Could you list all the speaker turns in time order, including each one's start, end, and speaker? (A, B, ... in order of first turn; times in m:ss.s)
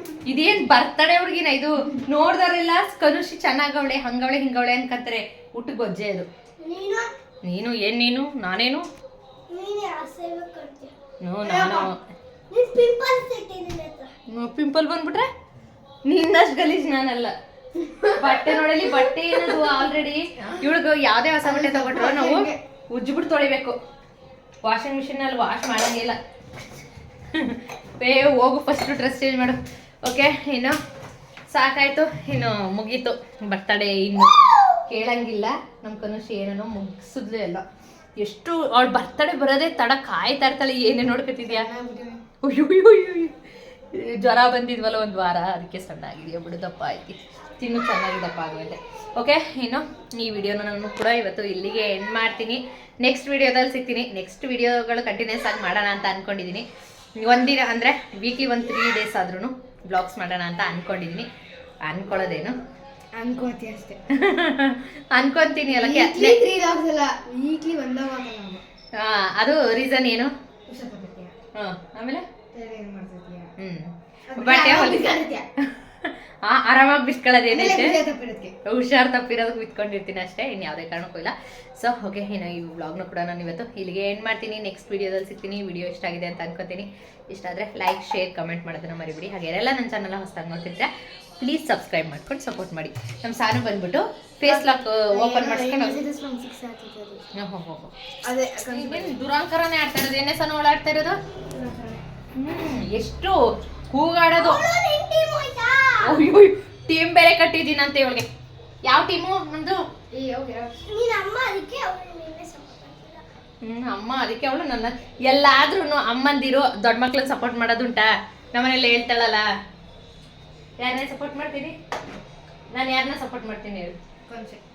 0:00.2-0:06.3 A
0:06.6-0:07.1 B
0:07.4-0:08.8 A
0:09.5-0:10.9 B
0:11.2-0:12.0 A
0:11.4-0:11.9 C
0:12.5-0:14.1 B
0:14.3-0:15.3 A
0:16.0-0:17.3 A
0:17.8-0:18.4 C
0:18.2-0:23.8 A
0:21.4-0:22.6 C
0:24.6-0:26.2 A
0:27.3-0:30.8 A
0:31.5-0:34.4 A
0:34.4-0:34.8 B
0:34.9-0:37.6 A
0:38.2-0:41.7 A
0:41.4-0:42.2 C
0:42.4-0:43.3 A
0:43.9-0:56.7 A
0:57.2-1:01.3 A
1:01.8-1:02.6 A
1:03.1-1:04.0 C
1:04.1-1:06.4 A
1:05.7-1:08.6 C
1:09.0-1:10.3 A
1:10.7-1:11.3 C
1:11.5-1:12.2 A
1:12.5-1:13.5 C
1:13.6-1:18.0 A
1:14.3-1:15.4 C
1:17.5-1:18.5 C
1:18.6-1:36.0 A
1:34.4-1:37.2 C
1:37.4-1:37.9 A
1:38.2-1:39.1 C
1:38.6-1:41.2 A
1:41.5-1:42.0 C
1:42.4-1:43.4 A
1:43.9-1:44.6 A
1:44.4-1:46.2 B
1:46.0-1:48.3 A
1:48.9-1:49.8 A
1:50.1-1:50.7 C
1:50.8-1:53.2 B
1:53.6-1:59.5 A
2:00.8-2:01.7 A
2:02.7-2:04.0 A
2:04.3-2:04.6 C